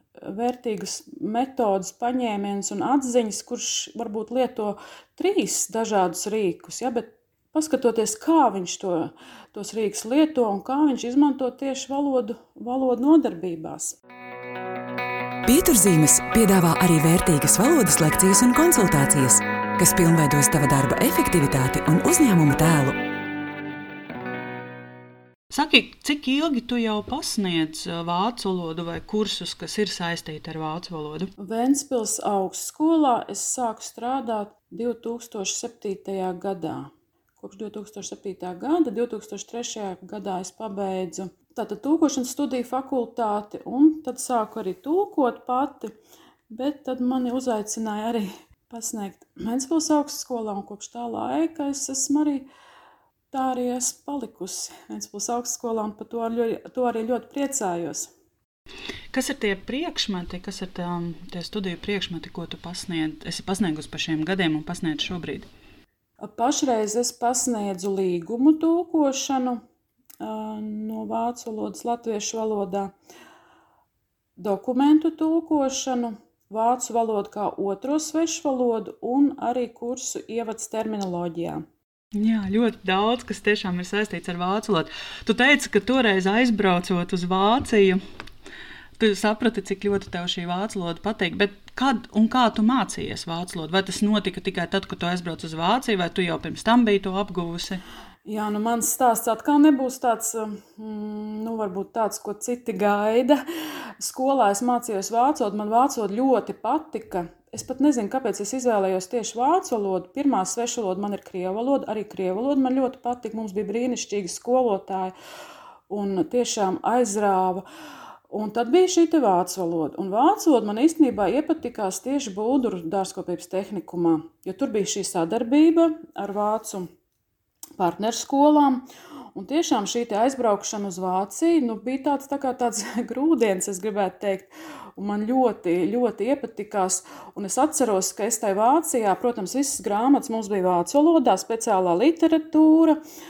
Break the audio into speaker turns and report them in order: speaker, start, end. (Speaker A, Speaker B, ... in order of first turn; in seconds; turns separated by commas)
Speaker A: 0.2-14.0, Speaker B: 15.5-23.0, Speaker C: 25.5-31.3, Speaker A: 31.4-45.9, Speaker A: 46.5-52.5, Speaker A: 53.3-58.1, Speaker C: 59.1-65.5, Speaker A: 66.2-69.6, Speaker A: 70.2-72.9, Speaker A: 74.4-81.7, Speaker C: 82.1-88.0, Speaker C: 89.0-97.8, Speaker A: 98.3-103.4, Speaker A: 104.0-115.1, Speaker A: 115.9-117.7, Speaker A: 118.3-126.9, Speaker A: 127.8-143.0